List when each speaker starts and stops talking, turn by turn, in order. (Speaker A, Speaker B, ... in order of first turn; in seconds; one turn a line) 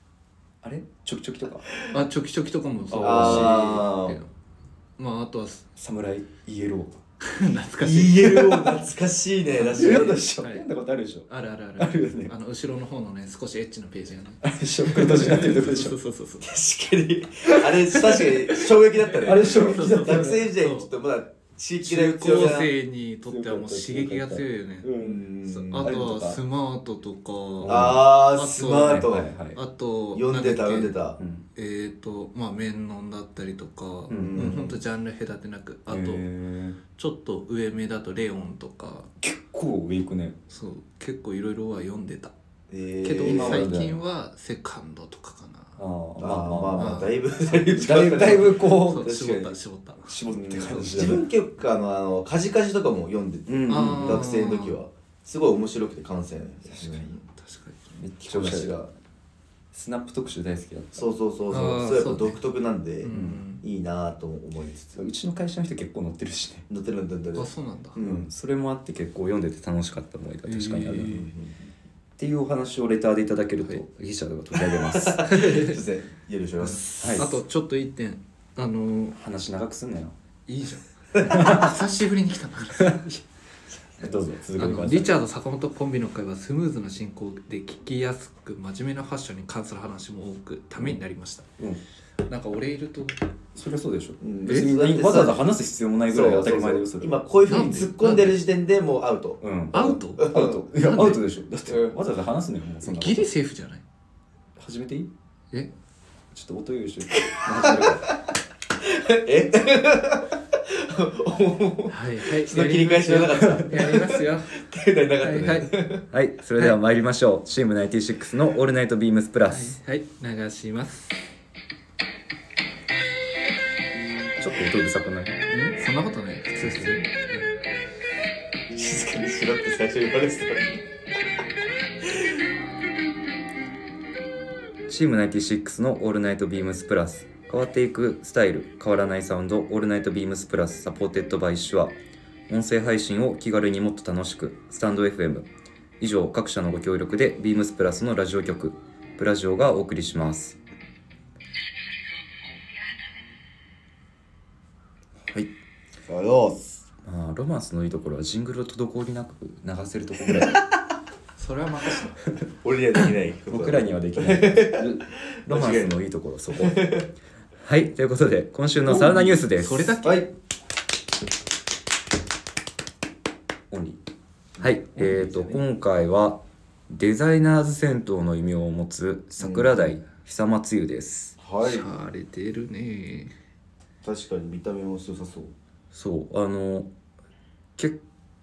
Speaker A: 0.6-1.7
Speaker B: 1.9-4.3
Speaker A: 2.9-3.6
Speaker C: 3.0-4.2
Speaker B: 5.0-5.7
Speaker A: 5.8-7.0
Speaker B: 7.2-8.6
Speaker C: 7.8-10.3
Speaker B: 9.5-10.6
Speaker A: 9.6-12.3
Speaker B: 11.3-16.6
Speaker A: 14.4-15.9
Speaker C: 16.4-22.7
Speaker B: 17.9-20.9
Speaker A: 19.2-20.4
Speaker B: 21.8-30.9
Speaker A: 23.3-25.2
Speaker C: 25.0-26.0
Speaker A: 25.8-26.4
Speaker A: 27.6-28.0
Speaker C: 27.6-29.3
Speaker A: 28.9-29.6
Speaker C: 30.1-31.2
Speaker A: 31.2-31.4
Speaker B: 31.6-36.2
Speaker A: 34.1-34.6
Speaker C: 34.1-34.8
Speaker A: 35.9-36.8
Speaker B: 37.0-39.1
Speaker A: 39.2-40.4
Speaker B: 40.5-42.3
Speaker C: 42.7-43.7
Speaker B: 43.0-45.8
Speaker A: 43.2-44.0
Speaker A: 45.8-46.9
Speaker C: 46.2-49.5
Speaker B: 46.7-47.1
Speaker A: 47.7-49.1
Speaker B: 48.6-50.2
Speaker A: 50.1-51.2
Speaker C: 50.3-57.1
Speaker A: 53.5-54.3
Speaker B: 53.7-54.8
Speaker A: 56.7-57.0
Speaker B: 56.8-58.0
Speaker A: 58.0-58.8
Speaker C: 58.3-58.9
Speaker A: 59.7-61.1
Speaker C: 60.9-65.0
Speaker B: 61.5-62.4
Speaker B: 63.0-63.6
Speaker A: 64.9-66.7
Speaker C: 66.7-68.3
Speaker B: 67.3-68.0
Speaker A: 68.0-71.2
Speaker B: 70.5-71.3
Speaker C: 71.1-71.5
Speaker A: 72.2-75.3
Speaker C: 74.7-76.8
Speaker B: 75.3-75.8
Speaker B: 76.6-79.2
Speaker A: 77.0-77.3
Speaker A: 79.2-80.1
Speaker B: 80.5-83.0
Speaker C: 81.1-81.6
Speaker A: 81.2-81.7
Speaker A: 82.8-83.2
Speaker A: 84.0-85.1
Speaker B: 84.6-91.5
Speaker B: 92.2-93.2
Speaker A: 93.5-97.2
Speaker C: 94.2-95.5
Speaker C: 96.1-99.4
Speaker B: 97.5-98.4
Speaker A: 99.4-103.3
Speaker B: 99.7-101.2
Speaker C: 100.2-100.7
Speaker C: 101.7-102.0
Speaker B: 102.8-103.8
Speaker A: 104.6-105.1
Speaker A: 106.3-108.1
Speaker C: 107.2-116.0
Speaker B: 111.9-114.6
Speaker B: 115.2-115.7
Speaker A: 116.1-119.8
Speaker B: 119.5-121.2
Speaker A: 124.4-125.5
Speaker B: 125.5-127.3
Speaker A: 126.6-127.0
Speaker C: 128.7-130.8
Speaker A: 134.9-141.9
Speaker A: 142.5-145.5
Speaker A: 146.0-150.6
Speaker C: 156.1-156.8
Speaker A: 157.0-160.6
Speaker B: 161.4-162.2
Speaker C: 162.6-165.9
Speaker A: 163.5-166.9
Speaker C: 166.5-167.1
Speaker A: 167.6-170.0
Speaker B: 168.9-170.2
Speaker C: 170.0-170.3
Speaker A: 173.7-174.0
Speaker A: 174.6-181.4
Speaker B: 174.9-175.6
Speaker C: 179.4-180.0
Speaker C: 181.4-181.9
Speaker B: 181.6-183.3
Speaker C: 184.0-185.5
Speaker A: 185.9-186.9